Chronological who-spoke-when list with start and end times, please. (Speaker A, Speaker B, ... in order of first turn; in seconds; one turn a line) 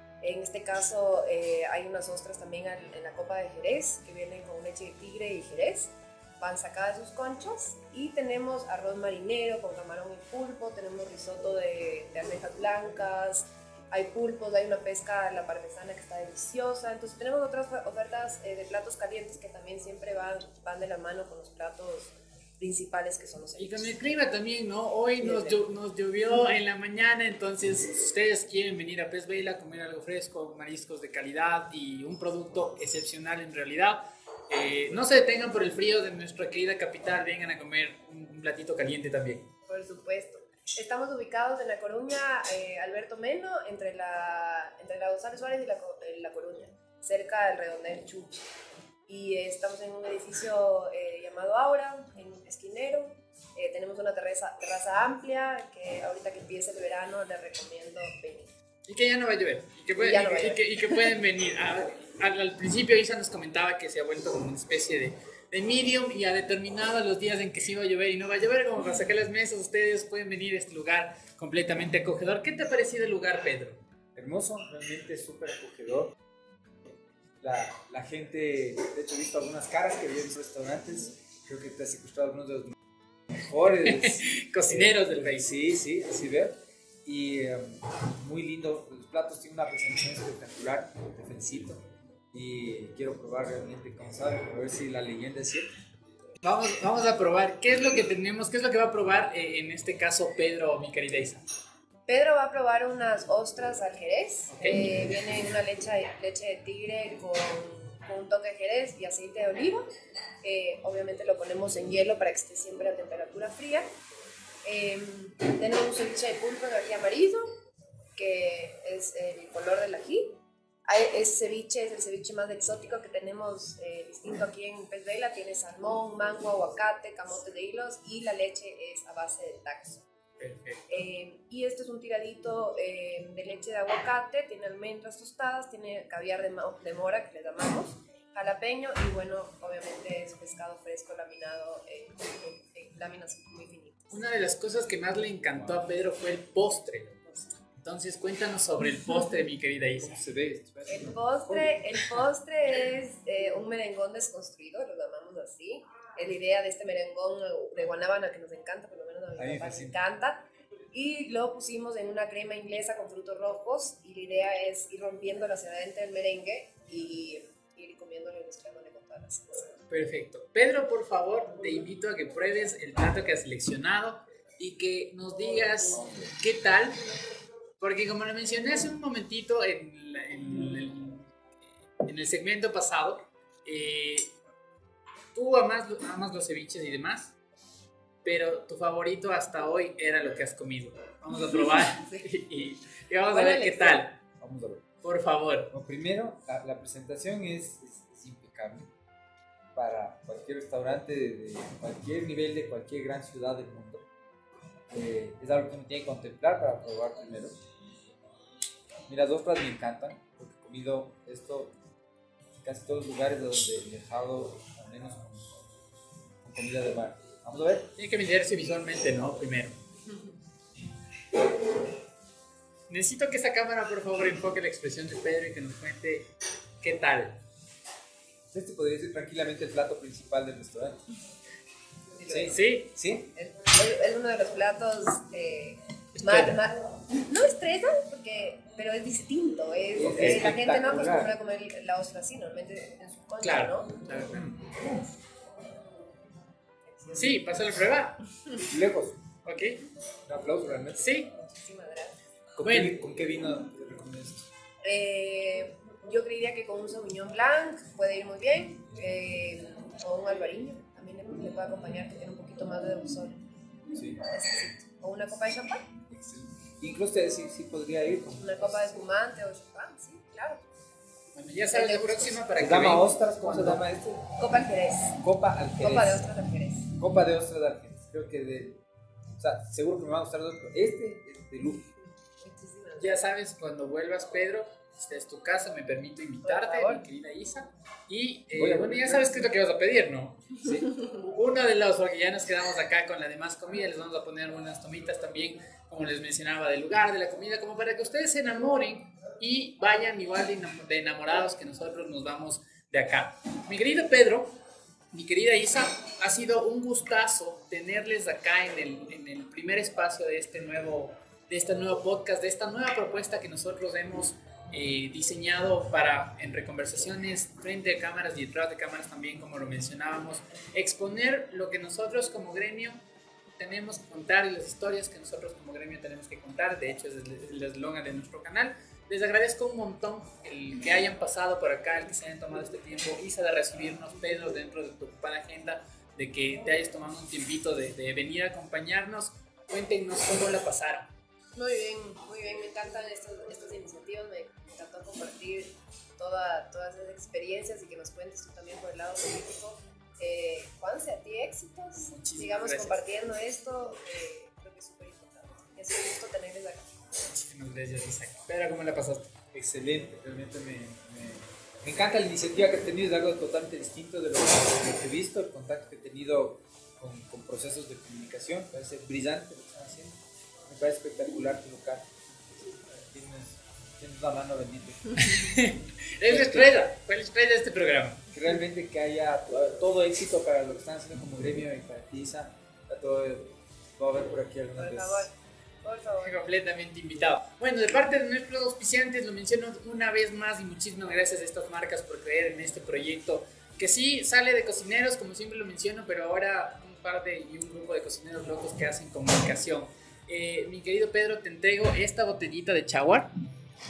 Speaker A: 0.2-24.0
Speaker B: 23.6-39.5
Speaker A: 25.2-25.6
Speaker A: 39.7-48.4
Speaker A: 49.1-58.5
Speaker B: 58.9-73.8
Speaker A: 60.0-60.7
Speaker C: 74.2-76.2
Speaker C: 77.4-82.8
Speaker C: 83.4-95.8
Speaker B: 83.8-85.5
Speaker B: 96.4-101.4
Speaker A: 102.1-109.9
Speaker B: 104.6-105.0
Speaker A: 110.4-113.9
Speaker A: 114.7-117.5
Speaker A: 118.2-130.1
Speaker B: 130.4-130.9
Speaker A: 130.9-144.2
Speaker B: 144.1-150.1
Speaker C: 150.0-151.8
Speaker A: 150.9-169.8
Speaker C: 159.4-160.0
Speaker B: 169.9-177.0
Speaker B: 177.8-181.3
Speaker B: 182.0-184.3
Speaker B: 185.3-187.3
Speaker B: 188.2-194.2
Speaker A: 193.3-194.0
Speaker C: 194.4-194.9
Speaker B: 195.0-195.7
Speaker C: 195.7-198.9
Speaker C: 199.8-204.1
Speaker C: 204.9-207.6
Speaker C: 209.1-211.7
Speaker C: 212.6-215.6
Speaker C: 216.4-217.9
Speaker B: 218.0-219.8
Speaker B: 222.9-226.3
Speaker B: 226.8-227.4
Speaker C: 228.5-231.0
Speaker A: 232.2-232.6
Speaker C: 232.3-233.3
Speaker B: 232.3-232.9
Speaker A: 233.3-243.9
Speaker B: 236.2-236.6
Speaker C: 239.9-241.3
Speaker B: 240.1-240.4
Speaker B: 243.4-244.5
Speaker A: 246.9-247.4
Speaker B: 247.1-248.2
Speaker C: 248.7-249.2
Speaker B: 249.4-249.8
Speaker C: 250.3-251.1
Speaker B: 251.0-251.3
Speaker A: 251.3-252.2
Speaker C: 252.6-254.5
Speaker B: 252.6-252.9
Speaker A: 254.8-263.4
Speaker C: 263.9-264.2
Speaker A: 264.2-265.9
Speaker C: 266.1-268.9
Speaker A: 268.4-270.8
Speaker B: 271.4-273.8
Speaker A: 271.7-272.4
Speaker C: 272.6-274.2
Speaker A: 274.4-275.2
Speaker C: 275.2-276.3
Speaker A: 275.8-276.9
Speaker C: 277.0-278.8
Speaker C: 279.4-281.9
Speaker A: 282.4-283.2
Speaker B: 283.0-304.5
Speaker A: 286.4-287.0
Speaker C: 288.5-289.4
Speaker C: 290.6-290.9
Speaker B: 305.1-323.0
Speaker B: 323.6-341.1
Speaker A: 341.6-357.0
Speaker B: 352.1-353.0
Speaker B: 357.2-359.3
Speaker C: 359.5-375.2
Speaker B: 375.2-378.2
Speaker C: 376.2-376.7
Speaker C: 378.3-385.3
Speaker A: 384.8-386.4
Speaker B: 386.2-403.3